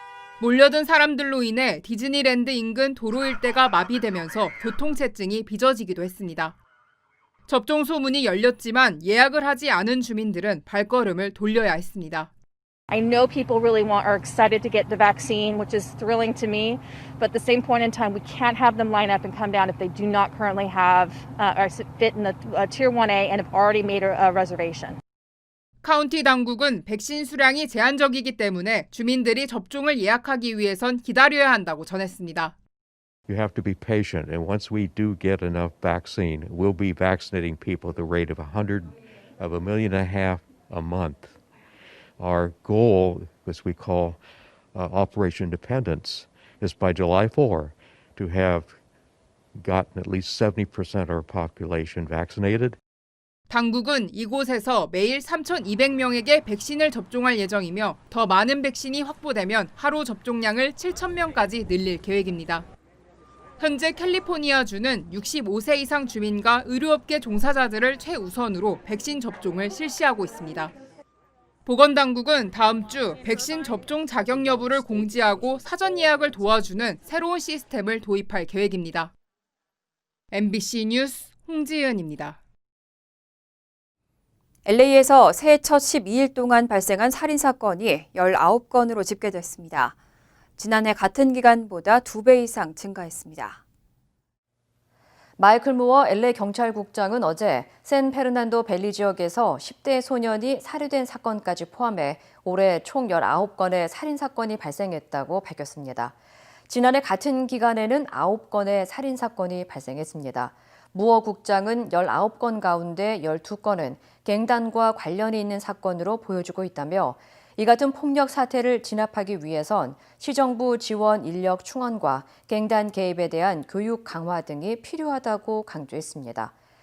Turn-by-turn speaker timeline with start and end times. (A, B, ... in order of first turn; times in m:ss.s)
0:00.4-0:06.6 A
0:07.5-0:12.3 A
0:12.9-0:25.0 B
0:25.8-0:32.6 A
0:33.3-0:41.4 C
0:42.2-0:44.2 C
0:44.7-0:48.8 C
0:49.5-0:52.8 C
0:53.5-1:02.7 A
1:03.6-1:10.7 A
1:11.7-1:19.1 A
1:20.3-1:22.4 A
1:24.6-1:30.0 D
1:30.6-1:33.6 D
1:35.4-1:46.2 E
1:46.7-2:06.5 E